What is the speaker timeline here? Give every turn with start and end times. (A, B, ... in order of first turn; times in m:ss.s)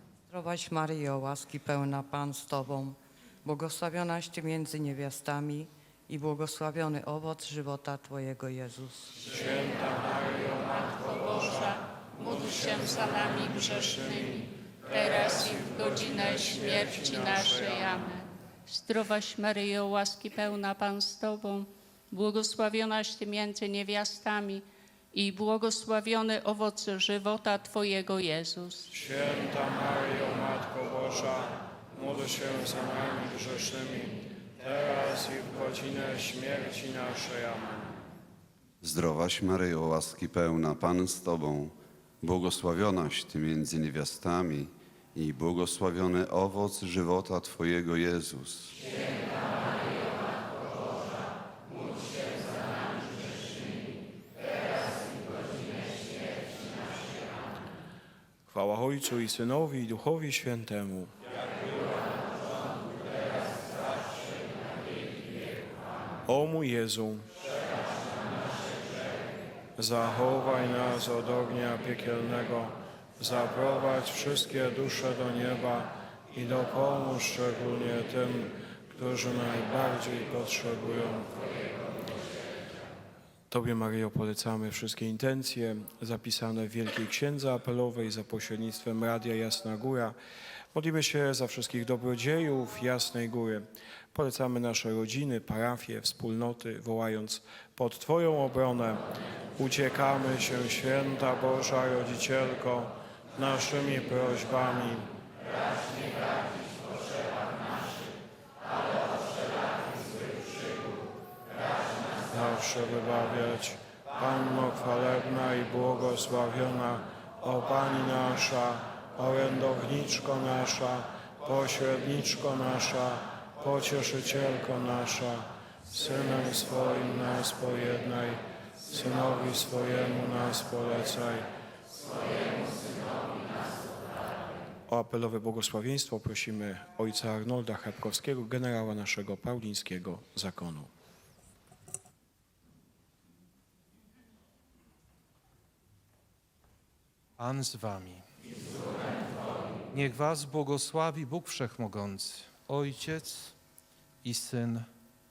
0:00.3-0:09.1 A
0:09.2-0:18.0 B
0:11.1-0:14.4 C
0:14.9-0:28.9 C
0:28.9-0:38.0 B
0:38.8-0:48.8 D
0:58.5-1:01.1 B
1:06.3-1:07.3 B
1:09.8-1:21.3 B
1:23.5-1:30.2 B
1:30.7-1:39.0 B
1:39.6-1:45.1 B
1:52.3-2:11.5 B
2:14.9-2:20.9 B
2:27.4-2:28.2 E
2:29.9-2:33.6 E
2:34.2-2:34.9 E